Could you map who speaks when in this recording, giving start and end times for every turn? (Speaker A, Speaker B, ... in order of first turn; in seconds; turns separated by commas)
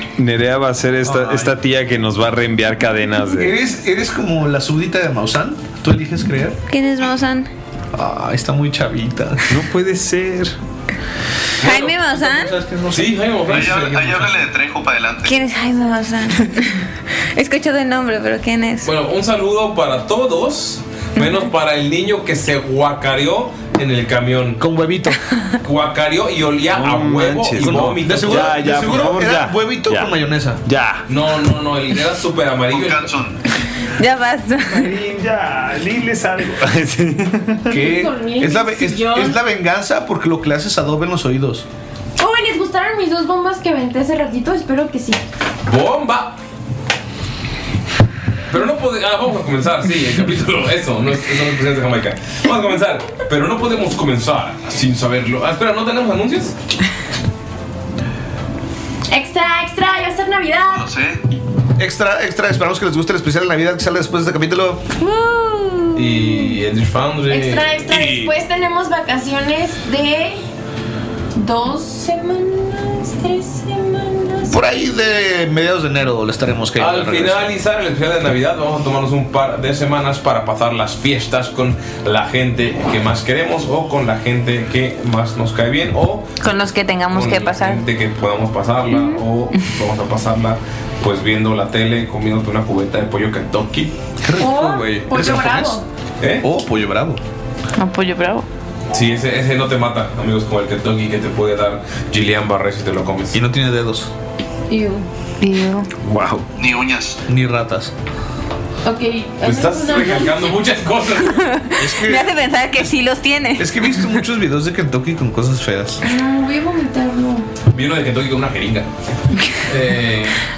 Speaker A: 0.2-3.5, Speaker B: 1.0-1.5, Speaker B: 3.3-6.6, Speaker C: 6.7-7.5, Speaker B: 7.9-9.6, Speaker A: 9.5-10.6, Speaker D: 11.6-11.9, Speaker C: 11.6-12.5, Speaker B: 11.8-13.8, Speaker D: 12.9-14.3, Speaker E: 13.5-15.5, Speaker C: 15.2-18.9, Speaker D: 18.8-24.6, Speaker C: 21.2-21.4, Speaker B: 24.6-25.2, Speaker D: 25.6-28.8, Speaker A: 26.7-30.1, Speaker B: 27.6-30.6, Speaker A: 30.6-31.1, Speaker D: 31.1-33.1, Speaker E: 32.7-33.4, Speaker C: 33.8-35.0, Speaker A: 34.7-37.7, Speaker B: 37.7-41.6, Speaker F: 37.7-39.4, Speaker F: 42.2-45.2, Speaker D: 45.7-46.4, Speaker D: 48.5-56.5, Speaker F: 59.1-60.9, Speaker E: 60.7-61.2, Speaker B: 61.8-64.8, Speaker C: 65.0-66.5, Speaker D: 65.9-68.2, Speaker F: 67.3-70.4, Speaker F: 71.3-74.6, Speaker B: 74.5-77.5, Speaker D: 76.8-86.3, Speaker C: 86.4-87.8, Speaker D: 87.1-93.9, Speaker C: 88.9-89.2, Speaker B: 94.2-95.8, Speaker F: 94.4-95.8, Speaker D: 96.2-96.5, Speaker B: 96.4-97.2, Speaker C: 97.8-98.5, Speaker D: 98.9-103.4, Speaker B: 103.3-104.1, Speaker F: 104.7-105.1, Speaker C: 105.4-105.9, Speaker A: 106.0-106.4, Speaker E: 106.6-107.2, Speaker B: 107.2-107.9, Speaker F: 108.8-110.5, Speaker D: 109.4-111.4, Speaker C: 111.3-114.2, Speaker B: 111.7-112.9, Speaker B: 113.6-116.0, Speaker F: 116.0-117.5, Speaker D: 117.7-118.9, Speaker D: 119.7-120.4